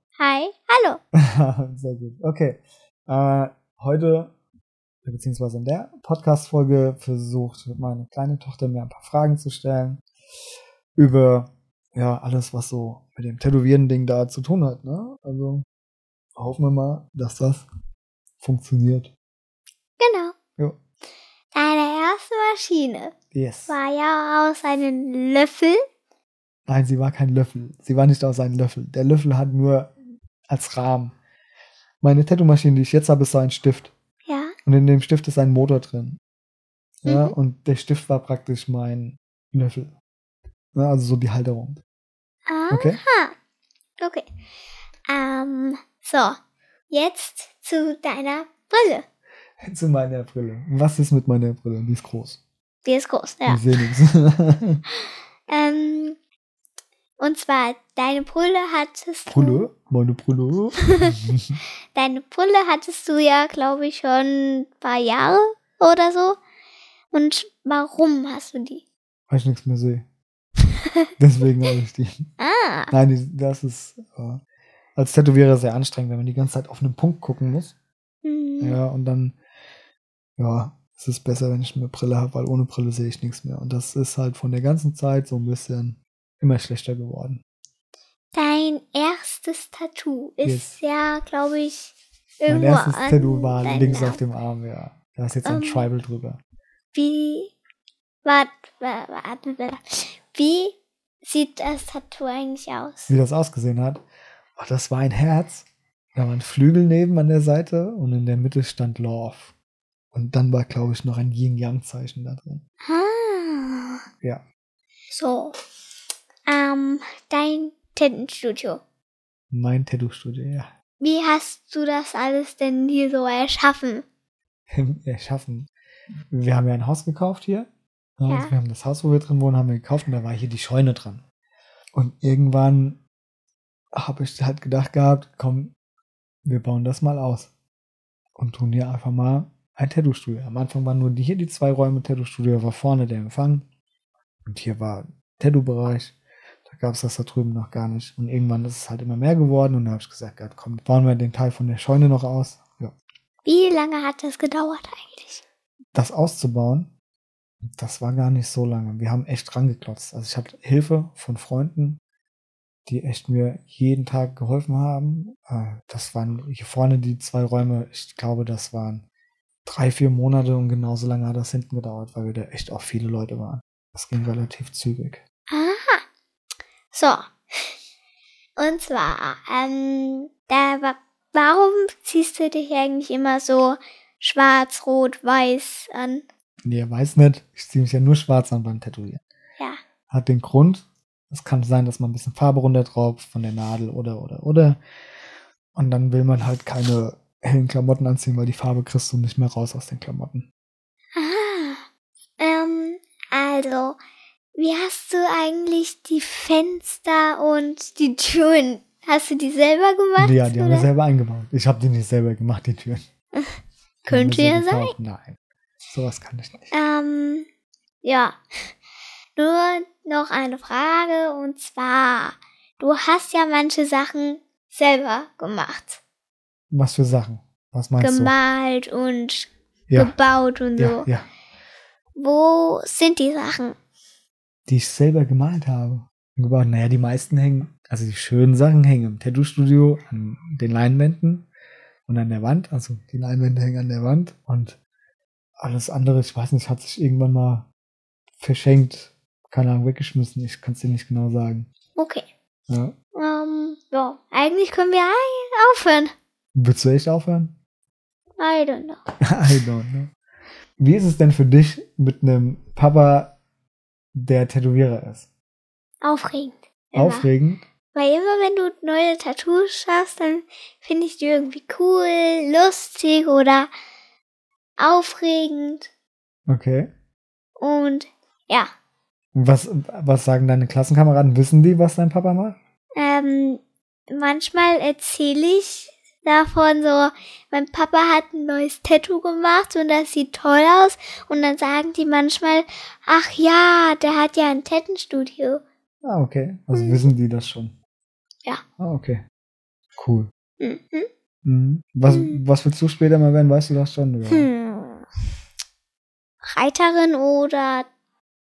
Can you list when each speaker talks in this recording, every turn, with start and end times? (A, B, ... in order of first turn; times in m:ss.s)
0:00.2-0:01.0 A
0:01.2-0:04.3 B
0:05.0-0:10.0 B
0:11.0-0:15.6 B
0:16.4-0:17.7 B
0:18.4-0:19.1 B
0:20.0-0:20.4 A
0:21.5-0:23.1 A
0:23.3-0:23.8 B
0:23.7-0:25.8 A
0:26.7-0:29.9 B
0:30.5-0:31.2 B
0:32.0-0:33.9 B
0:34.3-0:34.6 A
0:34.7-0:36.2 B
0:37.0-0:39.9 B
0:37.1-0:37.4 A
0:40.8-0:41.8 B
0:42.5-0:43.3 A
0:42.7-0:43.0 B
0:44.0-0:44.3 A
0:45.1-0:46.4 A
0:46.9-0:49.0 A
0:49.6-0:52.4 B
0:52.8-0:53.7 A
0:53.5-0:54.8 B
0:55.5-0:56.2 A
0:57.2-0:59.7 A
0:59.3-1:01.6 B
1:01.9-1:06.4 A
1:07.1-1:08.8 A
1:09.3-1:10.1 B
1:11.2-1:12.1 B
1:12.4-1:12.9 A
1:12.9-1:14.4 B
1:15.0-1:17.8 B
1:18.2-1:18.8 A
1:18.6-1:19.4 B
1:20.4-1:27.4 B
1:28.3-1:34.2 A
1:30.4-1:30.8 B
1:32.5-1:36.4 B
1:35.4-1:35.9 A
1:36.9-1:37.5 A
1:38.2-1:43.1 A
1:43.1-1:44.0 B
1:44.6-1:49.5 B
1:50.1-1:52.6 B
1:52.8-1:54.0 A
1:55.1-1:55.6 A
1:56.5-1:58.8 A
1:59.5-2:00.7 B
2:01.0-2:04.0 A
2:04.7-2:05.7 B
2:06.3-2:11.2 B
2:08.3-2:08.5 A
2:11.9-2:13.0 B
2:13.9-2:15.7 B
2:16.4-2:17.5 B
2:18.4-2:23.7 B
2:24.5-2:26.2 B
2:26.7-2:32.9 B
2:33.5-2:35.4 A
2:35.9-2:36.9 B
2:37.7-2:42.0 B
2:42.9-2:49.0 B
2:49.7-2:55.2 B
2:55.5-2:56.0 A
2:56.9-2:57.8 A
2:58.6-3:06.2 A
3:06.6-3:09.2 B
3:10.1-3:14.8 B
3:15.8-3:20.5 B
3:21.2-3:21.8 A
3:22.4-3:24.0 A
3:24.6-3:30.9 A
3:30.2-3:33.0 B
3:34.0-3:36.7 B
3:34.1-3:35.0 A
3:36.7-3:37.5 A
3:38.0-3:38.4 A
3:39.4-3:46.0 A
3:46.7-3:48.4 B
3:48.0-3:51.1 A
3:49.9-3:50.2 B
3:50.8-3:51.3 B
3:52.2-3:53.8 A
3:54.7-4:01.5 B
4:02.1-4:04.8 B
4:05.6-4:07.7 B
4:08.4-4:11.7 B
4:12.0-4:12.3 A
4:12.7-4:12.9 B
4:13.2-4:16.1 A
4:16.6-4:17.5 B
4:18.4-4:19.0 A
4:19.2-4:20.1 B
4:20.8-4:23.4 B
4:24.2-4:25.3 B
4:26.0-4:27.3 A
4:27.0-4:27.6 B
4:27.9-4:33.7 A
4:34.8-4:35.9 A
4:36.5-4:36.9 B
4:37.6-4:38.7 A
4:39.4-4:42.6 B
4:43.0-4:55.6 A
4:56.0-4:57.7 B
4:56.7-4:57.0 A
4:58.8-4:59.2 B
5:00.0-5:00.3 B
5:00.6-5:01.1 A
5:01.4-5:04.5 B
5:02.1-5:02.4 A
5:04.3-5:05.1 A
5:06.4-5:07.9 A